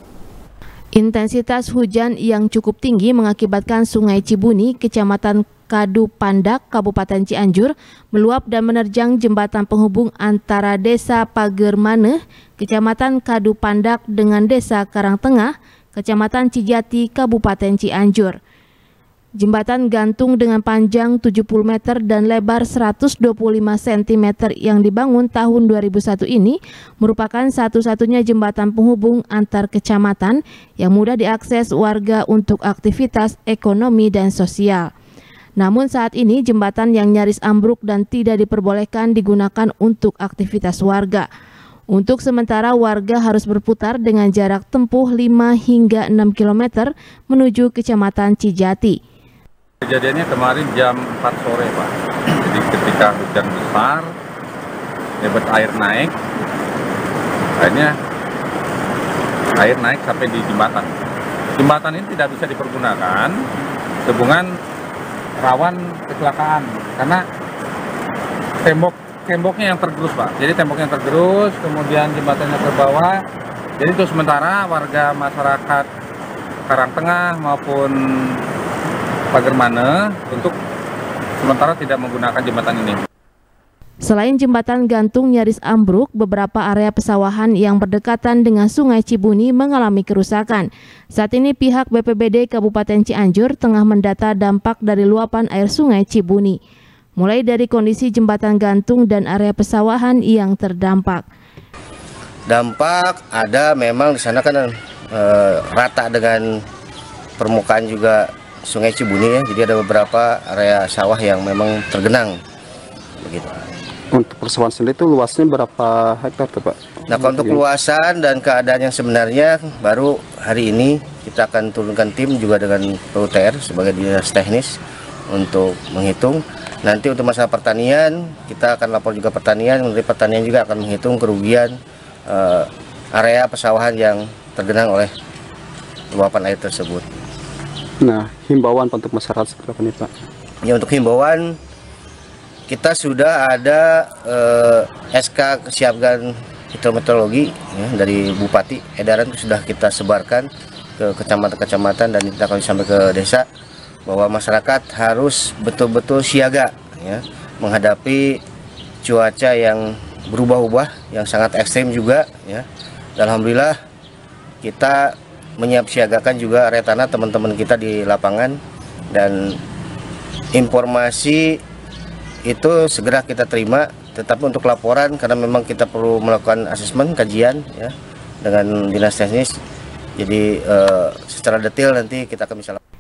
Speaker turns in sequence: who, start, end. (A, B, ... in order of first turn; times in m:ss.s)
0:01.0-0:18.4 A
0:19.4-0:34.9 A
0:35.6-0:41.3 A
0:41.9-0:49.0 A
0:49.8-0:54.1 B
0:55.2-0:56.2 B
0:57.6-0:57.9 B
0:59.6-1:00.9 B
1:01.6-1:03.4 B
1:04.0-1:04.5 B
1:05.4-1:07.2 B
1:08.6-1:13.2 B
1:13.8-1:15.9 B
1:16.7-1:18.4 B
1:19.3-1:20.5 B
1:21.4-1:23.0 B
1:24.0-1:36.6 A
1:37.2-1:41.2 A
1:42.5-1:46.6 C
1:47.4-1:52.4 C
1:53.2-1:53.6 C
1:54.1-1:57.6 D
1:57.1-2:04.8 C
2:05.3-2:11.8 C
2:12.3-2:15.1 C
2:16.1-2:17.0 C
2:18.0-2:20.1 D
2:20.6-2:21.6 C
2:22.7-2:30.5 C
2:31.0-2:33.5 C
2:34.1-2:38.4 C
2:39.0-2:42.7 C
2:43.2-2:43.8 C
2:44.6-2:48.6 C
2:49.1-2:49.6 C
2:50.5-2:51.6 C
2:52.5-2:59.6 C
3:00.2-3:02.8 C